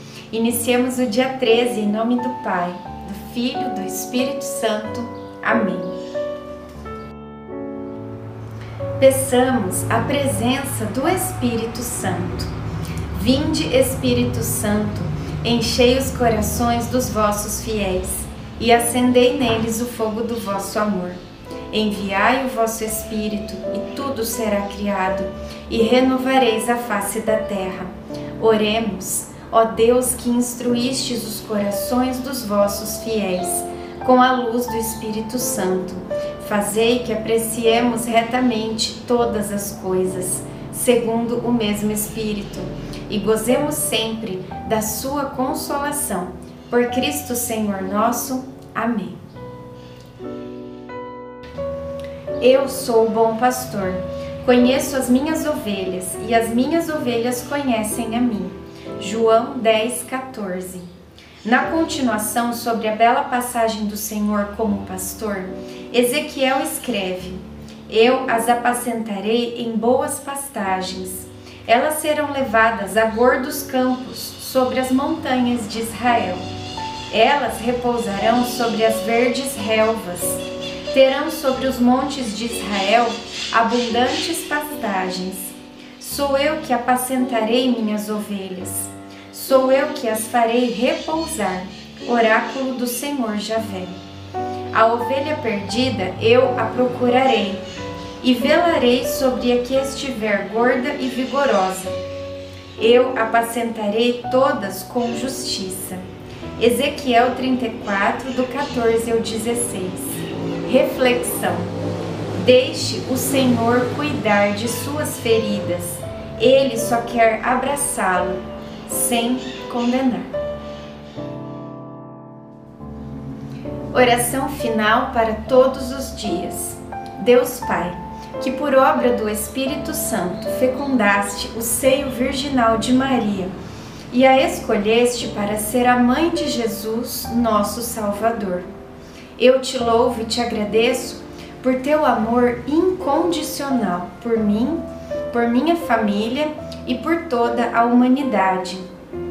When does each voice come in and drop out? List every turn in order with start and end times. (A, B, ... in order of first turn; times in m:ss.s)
0:00.3-0:06.0 A
0:09.0-0:12.5 A
0:13.1-0:49.2 A
0:52.4-1:00.9 A
1:01.4-1:16.4 A
1:17.1-1:34.0 A
1:34.7-1:37.6 A
1:38.2-1:42.0 A
1:42.8-1:46.0 A
1:46.6-1:51.7 A
1:52.3-2:00.3 A
2:03.9-2:13.5 A
2:14.1-2:18.7 A
2:19.4-2:28.8 A